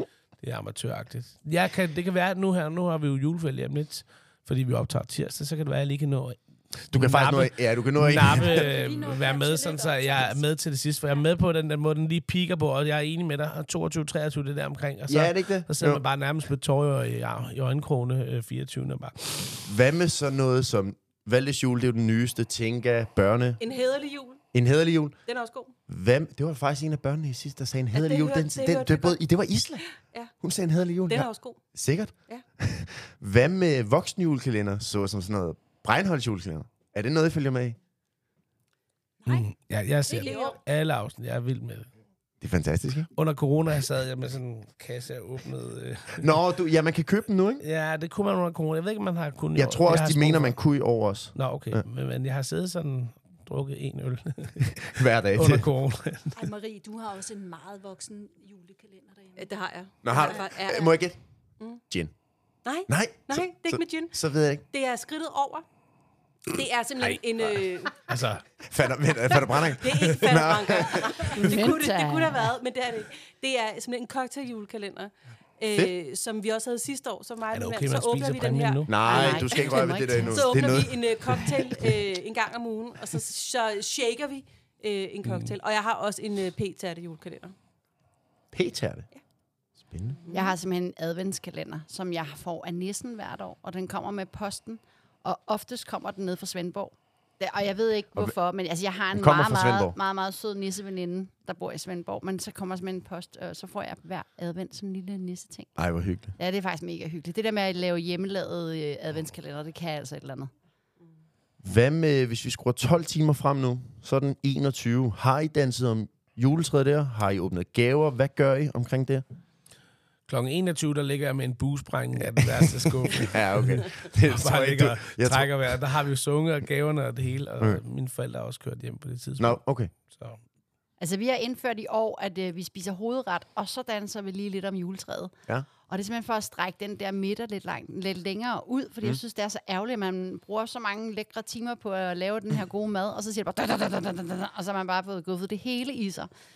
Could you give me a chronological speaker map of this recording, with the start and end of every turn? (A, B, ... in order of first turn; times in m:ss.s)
0:00.4-0:19.6 A
0:06.9-0:08.7 B
0:08.3-0:10.4 C
0:15.1-0:16.0 B
0:19.6-0:23.6 B
0:23.6-0:24.4 D
0:24.5-0:25.2 B
0:25.3-0:25.7 D
0:25.9-0:29.9 B
0:27.9-0:29.2 D
0:29.8-0:30.3 D
0:30.4-0:37.8 B
0:31.1-0:31.6 D
0:39.2-0:39.5 C
0:39.3-0:41.9 A
0:40.0-0:40.6 C
0:40.2-0:40.6 D
0:42.4-0:43.1 B
0:43.1-0:46.4 A
0:46.2-0:47.6 B
0:47.6-0:50.5 A
0:49.5-0:51.8 B
0:51.3-0:56.4 A
0:54.8-0:55.7 B
0:56.3-0:59.5 C
0:59.4-1:01.0 D
1:00.0-1:01.2 B
1:00.1-1:00.4 C
1:02.6-1:04.2 D
1:02.9-1:04.6 B
1:04.7-1:05.6 D
1:06.5-1:08.0 D
1:07.0-1:08.4 A
1:08.6-1:11.3 B
1:09.5-1:27.5 D
1:11.4-1:12.5 E
1:17.5-1:19.2 A
1:18.9-1:21.6 B
1:19.0-1:20.7 E
1:25.2-1:25.5 A
1:28.5-1:29.1 B
1:29.8-1:30.2 B
1:30.2-1:30.5 D
1:30.3-1:45.7 E
1:39.1-1:39.9 B
1:45.8-1:46.3 B
1:46.4-1:50.5 E
1:51.6-1:59.2 B
2:00.3-2:10.4 A
2:03.3-2:05.5 B
2:09.4-2:09.9 B
2:11.0-2:15.3 E
2:15.9-2:26.3 E